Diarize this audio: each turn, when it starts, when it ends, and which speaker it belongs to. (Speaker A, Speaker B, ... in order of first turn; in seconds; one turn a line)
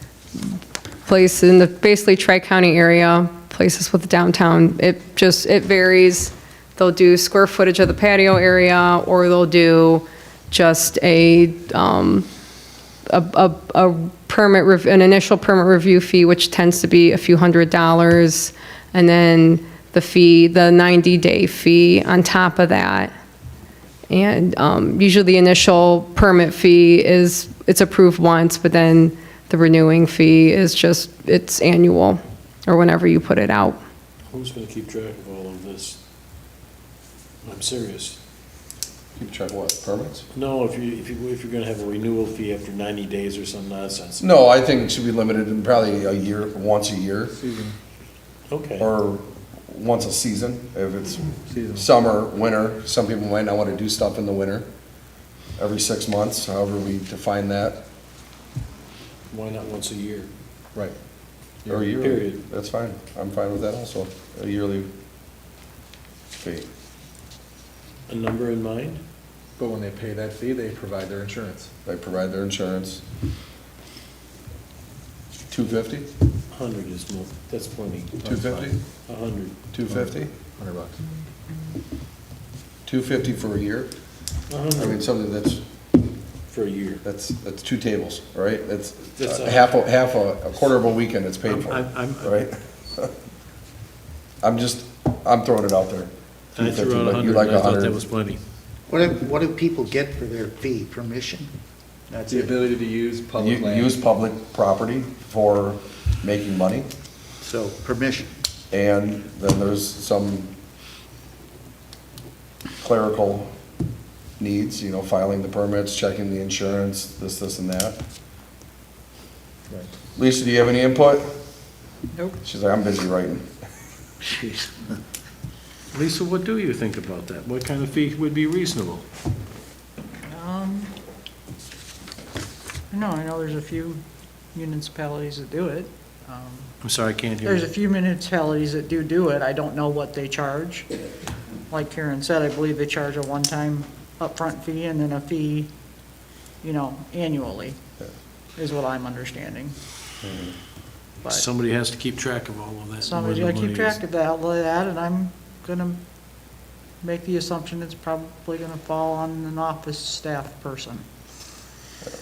Speaker A: 0.4-12.2
Speaker A: 13.1-23.1
Speaker A: 24.1-33.8
Speaker B: 34.2-36.0
Speaker B: 37.4-38.2
Speaker C: 39.1-40.2
Speaker B: 40.3-44.2
Speaker C: 44.2-47.3
Speaker D: 47.4-47.7
Speaker B: 48.5-48.9
Speaker C: 48.8-51.2
Speaker D: 51.5-51.9
Speaker C: 51.7-54.7
Speaker C: 55.6-57.9
Speaker B: 59.3-60.3
Speaker D: 61.6-62.0
Speaker C: 61.7-64.9
Speaker B: 62.0-62.4
Speaker C: 66.4-66.7
Speaker B: 68.1-69.0
Speaker D: 69.6-71.7
Speaker C: 71.8-73.0
Speaker C: 75.5-76.1
Speaker B: 76.5-79.5
Speaker C: 78.2-78.8
Speaker C: 79.7-80.3
Speaker D: 80.6-81.0
Speaker C: 82.8-83.9
Speaker B: 84.5-85.0
Speaker C: 84.7-85.6
Speaker B: 86.5-87.0
Speaker C: 87.0-93.1
Speaker B: 89.2-89.7
Speaker B: 91.5-92.3
Speaker C: 94.4-98.0
Speaker B: 96.5-98.4
Speaker E: 98.9-101.5
Speaker E: 102.1-102.6
Speaker D: 102.3-104.0
Speaker C: 103.3-106.9
Speaker E: 107.4-108.3
Speaker C: 108.7-110.5
Speaker C: 112.8-113.5
Speaker C: 114.4-118.0
Speaker C: 120.1-121.3
Speaker C: 122.4-123.5
Speaker E: 124.2-125.0
Speaker B: 125.9-129.1
Speaker F: 130.3-130.9
Speaker F: 132.9-134.0
Speaker F: 134.5-136.7
Speaker B: 136.8-137.7
Speaker F: 137.4-140.9
Speaker F: 141.7-145.7
Speaker F: 146.6-147.8
Speaker F: 148.6-149.8
Speaker C: 150.2-150.6
Speaker B: 151.2-154.0
Speaker F: 153.0-156.0
Speaker F: 157.0-161.0